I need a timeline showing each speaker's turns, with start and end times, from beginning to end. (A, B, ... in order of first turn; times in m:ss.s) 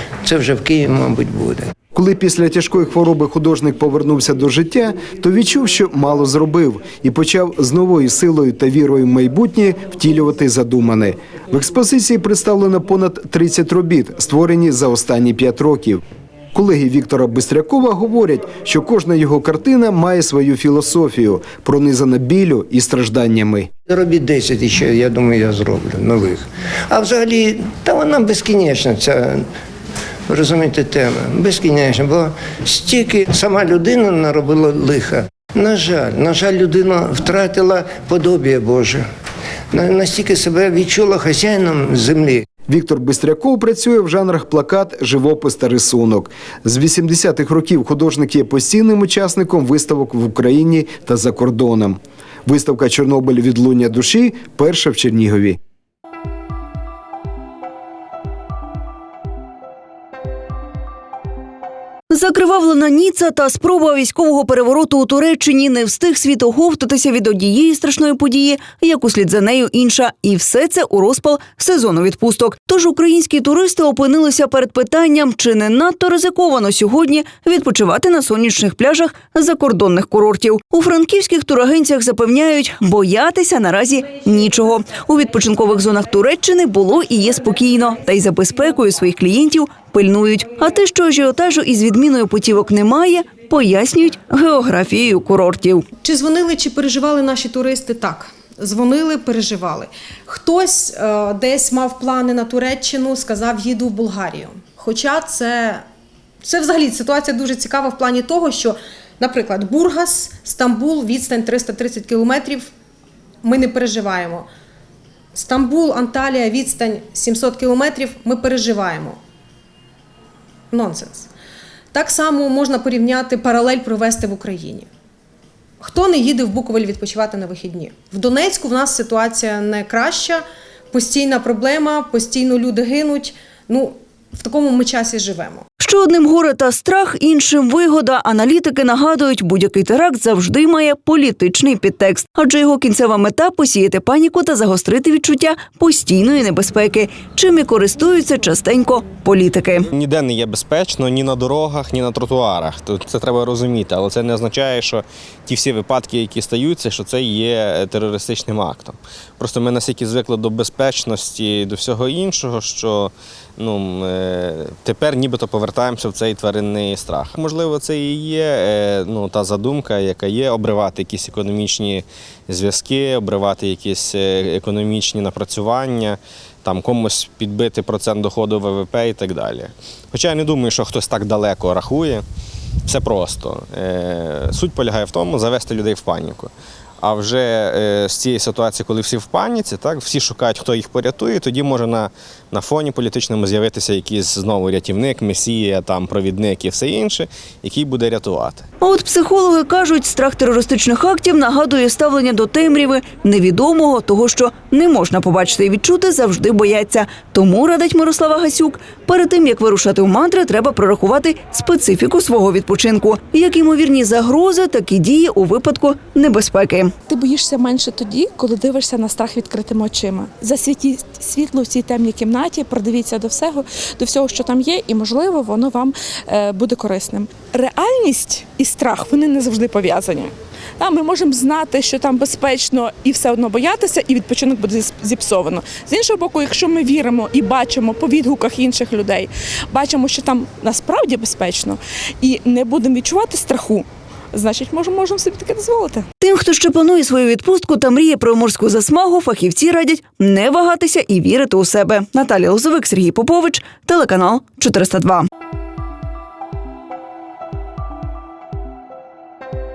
0:00.2-0:01.7 A
0:01.9-0:16.0 B
0:16.5-0:23.7 B
0:23.9-0:29.5 A
0:30.3-0:39.0 A
0:39.7-0:42.5 A
0:42.6-0:55.6 B
1:02.1-1:35.8 C
1:36.0-1:45.8 D
1:46.4-1:52.7 D
1:53.4-1:54.5 D
1:55.3-1:59.2 D
2:00.7-2:01.3 D
2:01.9-2:04.9 D
2:05.8-2:15.6 D
2:15.8-2:29.9 C
2:29.9-3:02.2 E
3:02.9-3:18.7 E
3:18.8-3:36.9 C
3:37.1-4:06.0 F
4:06.2-4:15.2 C